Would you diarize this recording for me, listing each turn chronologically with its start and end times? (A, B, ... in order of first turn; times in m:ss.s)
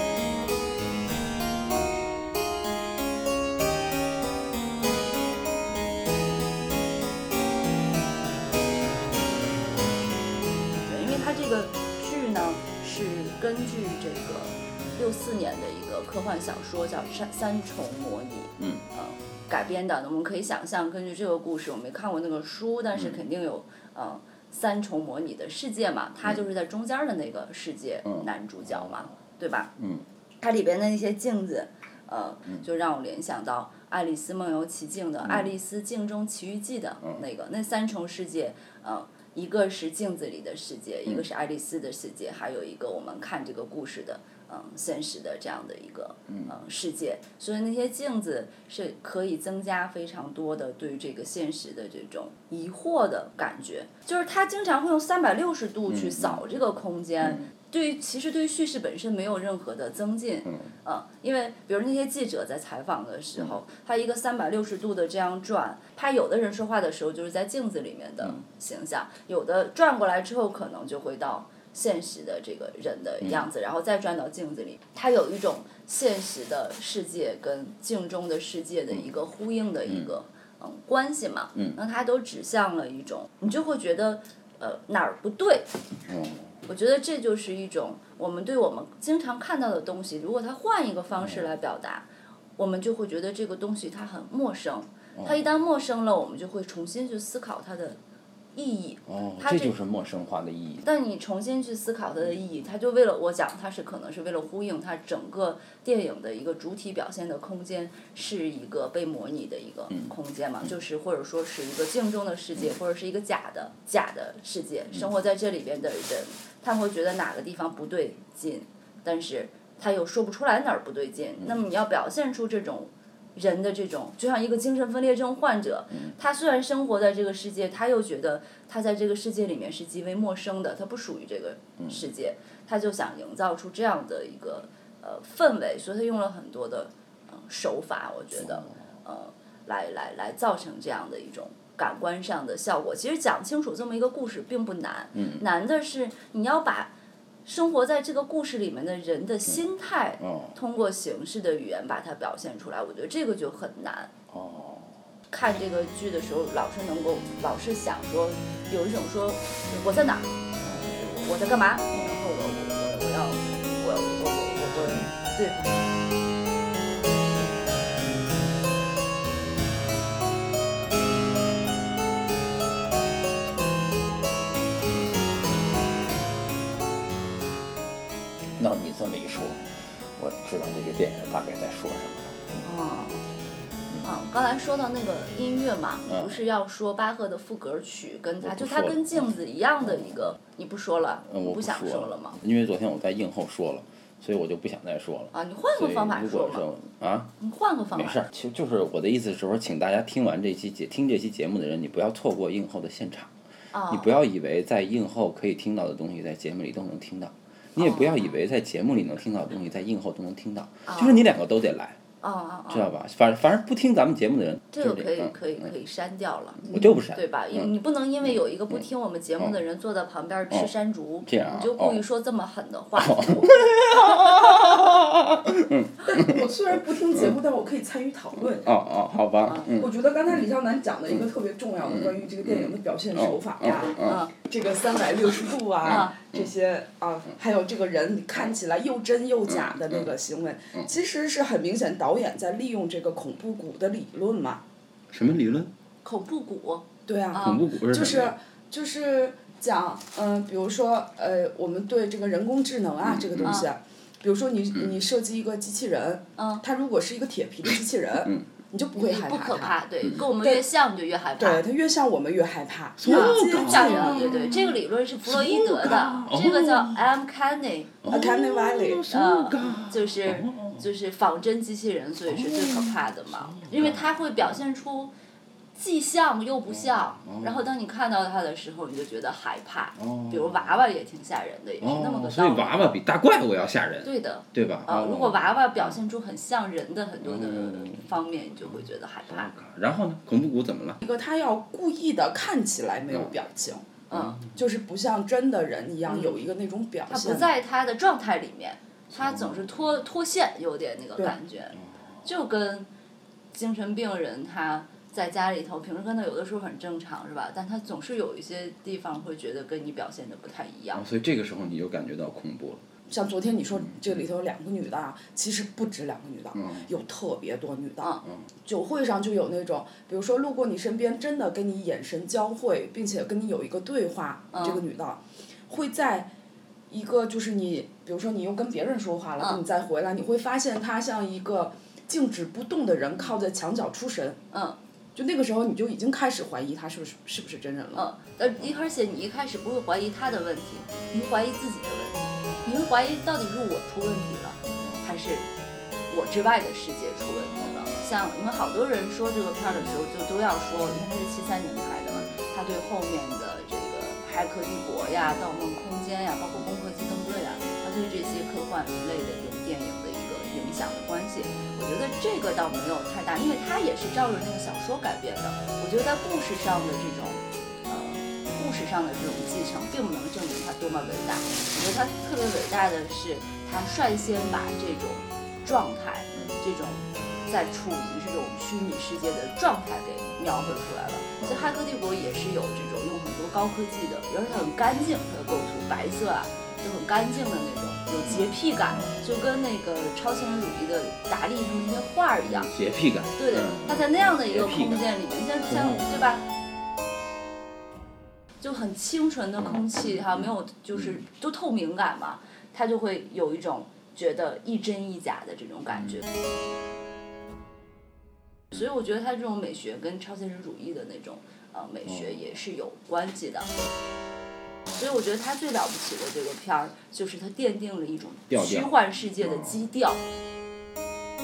0:10.8-0:29.7 A
0:22.9-0:23.2 B
0:28.0-0:29.0 B
0:29.8-0:30.0 B
0:30.4-1:25.7 A
0:35.2-0:35.5 B
0:55.9-0:56.4 B
1:13.2-1:13.5 B
1:19.9-1:20.1 B
1:26.1-1:26.5 B
1:26.7-1:38.0 A
1:31.2-1:31.5 B
1:35.2-1:35.4 B
1:38.5-1:39.8 A
1:39.1-1:40.8 B
1:40.8-2:26.9 A
2:11.8-2:12.0 B
2:18.4-2:18.8 B
2:25.2-2:25.4 B
2:27.4-2:34.1 A
2:30.2-2:30.6 B
2:34.3-2:35.0 B
2:35.3-2:45.6 A
2:40.6-2:40.9 B
2:41.9-2:42.2 B
2:44.8-2:45.1 B
2:58.6-3:02.6 B
3:02.6-3:03.2 A
3:04.0-3:12.4 A
3:06.1-3:06.4 B
3:08.4-3:10.3 B
3:11.2-3:17.3 B
3:15.3-3:16.7 A
3:17.4-3:18.2 A
3:17.9-3:23.3 B
3:23.7-3:24.2 A
3:23.9-3:32.0 B
3:27.8-3:28.3 A
3:30.9-3:31.3 A
3:32.2-3:33.0 A
3:32.7-3:35.7 B
3:34.7-3:44.4 A
3:36.7-3:37.7 B
3:38.2-3:38.8 B
3:41.2-3:42.0 B
3:43.0-3:46.3 B
3:46.0-3:48.7 C
3:48.5-3:50.4 B
3:49.6-4:04.6 C
3:51.9-3:54.3 B
3:54.0-3:54.3 A
3:55.8-3:56.2 A
3:55.8-3:56.4 B
3:59.5-4:00.1 B
4:05.1-4:05.7 B
4:06.0-4:07.6 A
4:07.1-4:19.8 C
4:07.4-4:08.4 B
4:13.0-4:13.6 B
4:13.4-4:13.7 A
4:16.4-4:16.6 A
4:19.0-4:21.6 A
4:20.4-4:20.7 C
4:21.4-4:24.5 C
4:23.0-4:27.0 B
4:23.1-4:28.0 A
4:28.0-4:30.9 B
4:28.0-4:29.1 C
4:29.1-4:35.1 A
4:32.3-4:34.6 B
4:35.8-4:43.0 A
4:36.7-4:37.7 B
4:40.0-4:40.9 B
4:41.8-4:46.0 B
4:44.0-4:49.6 A
4:47.2-4:48.1 B
4:48.7-4:51.0 B
4:51.0-4:57.5 C
4:54.1-4:54.4 A
4:54.1-4:54.5 B
4:56.1-4:56.4 A
4:57.1-5:02.9 A
4:59.1-4:59.8 B
5:03.5-5:11.0 A
5:10.9-5:12.8 B
5:13.1-5:26.3 C
5:16.6-5:16.9 B
5:24.5-5:24.8 A
5:26.9-5:34.4 C
5:34.5-5:34.8 A
5:35.2-5:38.1 C
5:37.9-5:45.5 A
5:46.1-6:32.7 A
5:52.1-5:52.4 B
6:16.3-6:16.6 B
6:21.4-6:21.7 B
6:28.3-6:29.2 B
6:32.5-6:35.1 B
6:33.4-6:36.5 A
6:35.7-6:36.2 B
6:38.6-6:46.3 A
6:39.6-6:41.2 B
6:48.7-6:53.8 A
6:52.1-6:52.5 B
6:55.0-7:00.3 A
6:58.5-6:59.8 B